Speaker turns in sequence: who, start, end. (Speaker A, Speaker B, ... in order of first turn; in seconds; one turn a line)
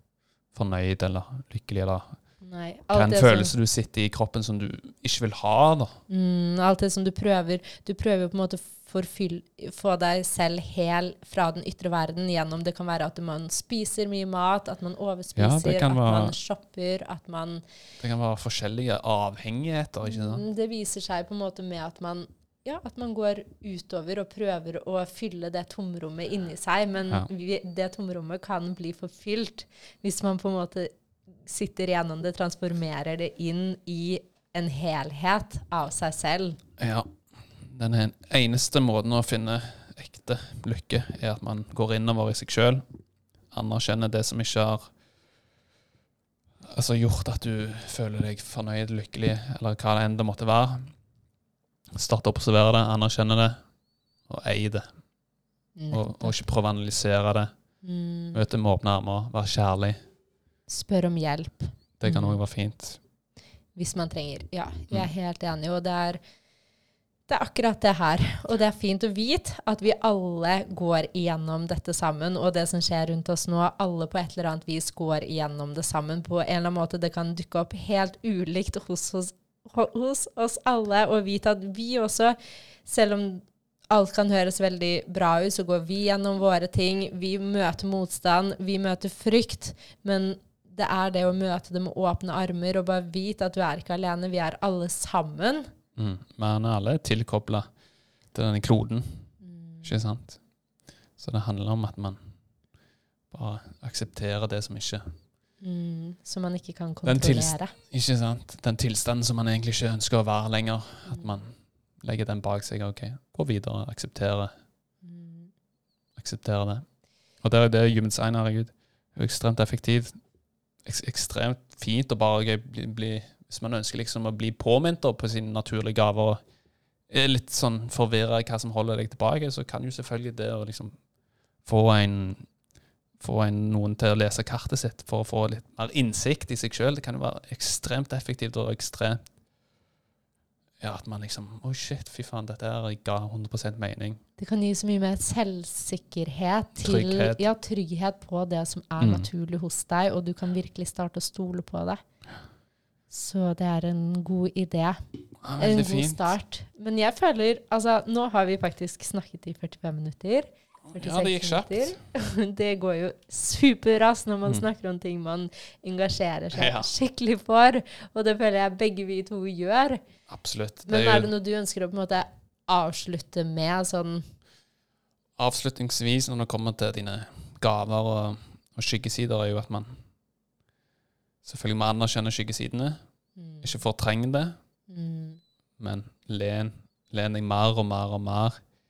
Speaker A: 0.5-2.1
Speaker B: 2.4-3.5
Speaker A: 2.9-6.0
Speaker B: 6.1-17.6
Speaker A: 15.3-16.3
Speaker A: 18.0-20.4
Speaker B: 20.0-30.9
Speaker B: 31.4-36.6
Speaker A: 36.8-42.8
Speaker A: 43.5-44.9
Speaker A: 46.6-50.9
Speaker A: 51.9-53.6
Speaker A: 54.3-54.9
Speaker B: 55.8-56.4
Speaker A: 55.9-57.5
Speaker B: 57.8-58.4
Speaker A: 58.3-60.0
Speaker B: 60.7-62.4
Speaker A: 62.0-63.0
Speaker B: 63.8-66.2
Speaker B: 67.3-95.7
Speaker A: 96.0-97.7
Speaker A: 98.3-99.3
Speaker B: 99.4-99.9
Speaker A: 99.8-100.4
Speaker A: 101.2-102.2
Speaker A: 103.3-105.1
Speaker B: 105.6-107.7
Speaker A: 107.0-114.5
Speaker B: 115.0-115.5
Speaker A: 116.2-116.8
Speaker A: 117.4-120.1
Speaker A: 120.8-126.4
Speaker A: 127.1-131.0
Speaker A: 131.6-132.4
Speaker A: 133.2-139.2
Speaker A: 140.8-144.2
Speaker B: 144.4-152.0
Speaker A: 146.8-147.4
Speaker A: 149.0-149.3
Speaker B: 153.1-155.0
Speaker A: 155.4-156.3
Speaker B: 155.6-170.0
Speaker A: 160.9-162.0
Speaker A: 166.5-166.9
Speaker A: 170.3-171.3
Speaker B: 170.8-174.3
Speaker A: 175.4-180.0
Speaker A: 181.4-183.0
Speaker B: 183.4-183.8
Speaker A: 183.6-184.6
Speaker B: 184.9-185.4
Speaker A: 185.8-188.6